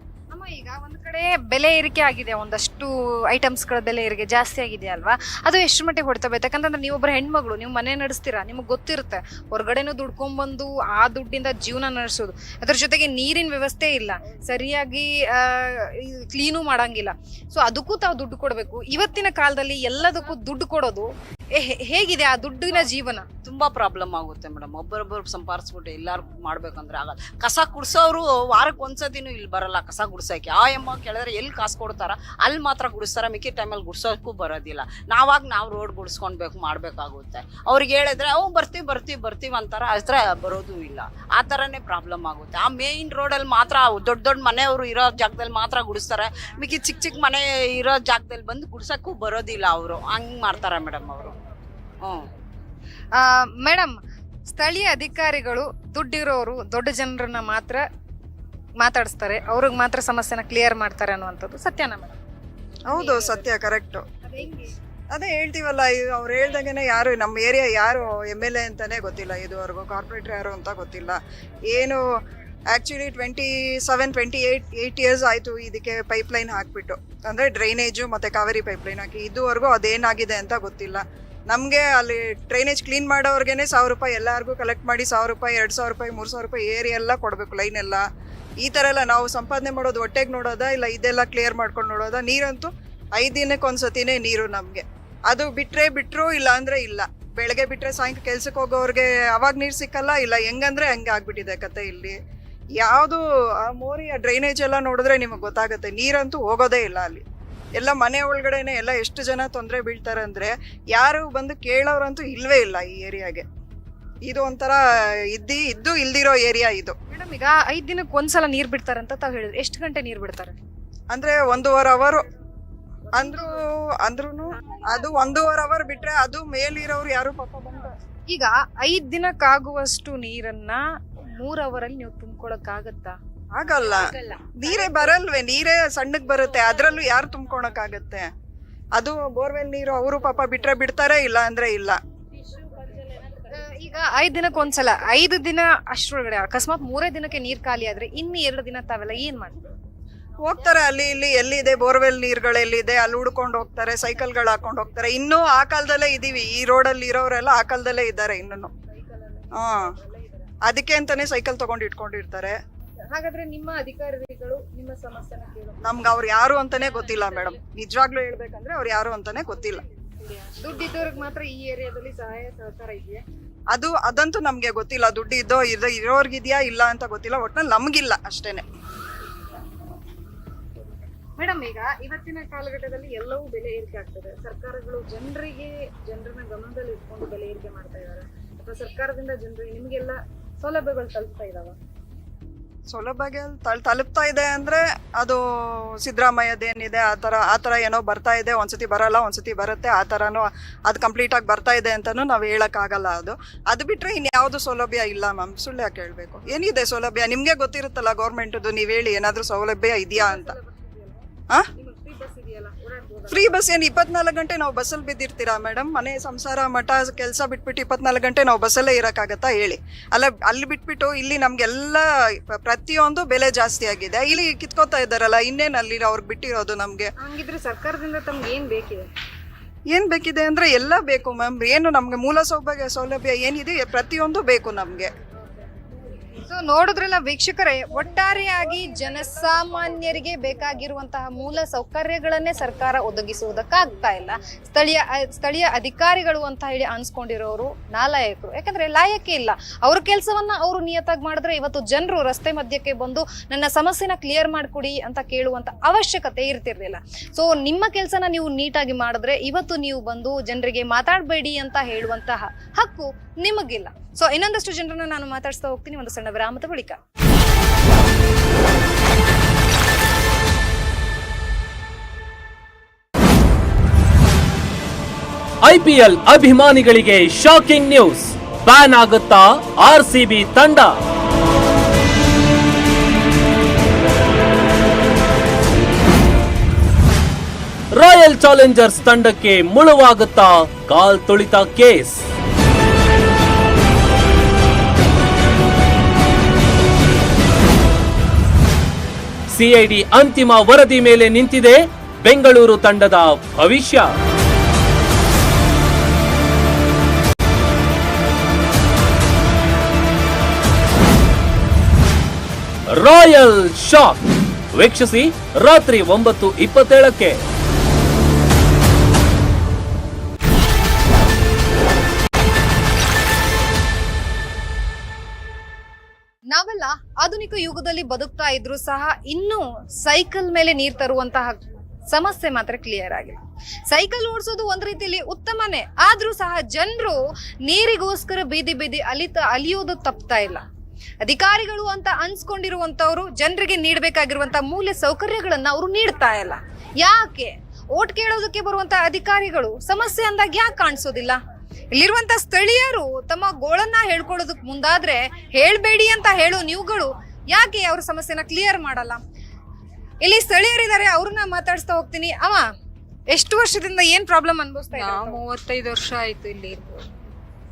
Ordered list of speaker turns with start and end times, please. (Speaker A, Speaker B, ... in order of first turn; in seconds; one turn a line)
Speaker A: 0.3-23.3
Speaker B: 23.4-51.4
Speaker A: 53.1-57.8
Speaker A: 58.8-62.2
Speaker C: 62.9-64.0
Speaker A: 62.9-63.5
Speaker A: 64.2-64.7
Speaker C: 65.1-72.0
Speaker C: 72.7-88.0
Speaker C: 88.6-102.2
Speaker C: 102.8-107.2
Speaker C: 107.8-113.5
Speaker C: 114.3-114.8
Speaker C: 115.3-117.0
Speaker A: 117.1-120.6
Speaker C: 121.1-122.2
Speaker C: 123.1-127.9
Speaker A: 128.3-130.8
Speaker A: 131.4-133.2
Speaker C: 133.6-138.3
Speaker C: 138.9-142.0
Speaker A: 143.5-149.6
Speaker C: 150.4-158.7
Speaker A: 159.0-160.5
Speaker C: 159.6-159.9
Speaker C: 160.6-162.6
Speaker A: 163.1-165.8
Speaker C: 165.8-169.8
Speaker A: 170.5-173.2
Speaker C: 173.7-178.7
Speaker A: 181.4-191.8
Speaker C: 192.9-210.6
Speaker A: 210.2-211.2
Speaker A: 211.8-213.6
Speaker C: 213.3-227.1
Speaker A: 227.2-229.1
Speaker C: 229.9-235.1
Speaker A: 236.3-267.0
Speaker D: 275.6-281.0
Speaker D: 287.9-292.2
Speaker D: 299.5-304.1
Speaker D: 312.9-314.2
Speaker D: 314.7-317.4
Speaker A: 326.5-333.4
Speaker A: 333.9-340.6
Speaker A: 341.2-351.4
Speaker A: 351.9-359.2
Speaker A: 360.2-362.7
Speaker A: 363.3-365.4
Speaker E: 364.9-367.1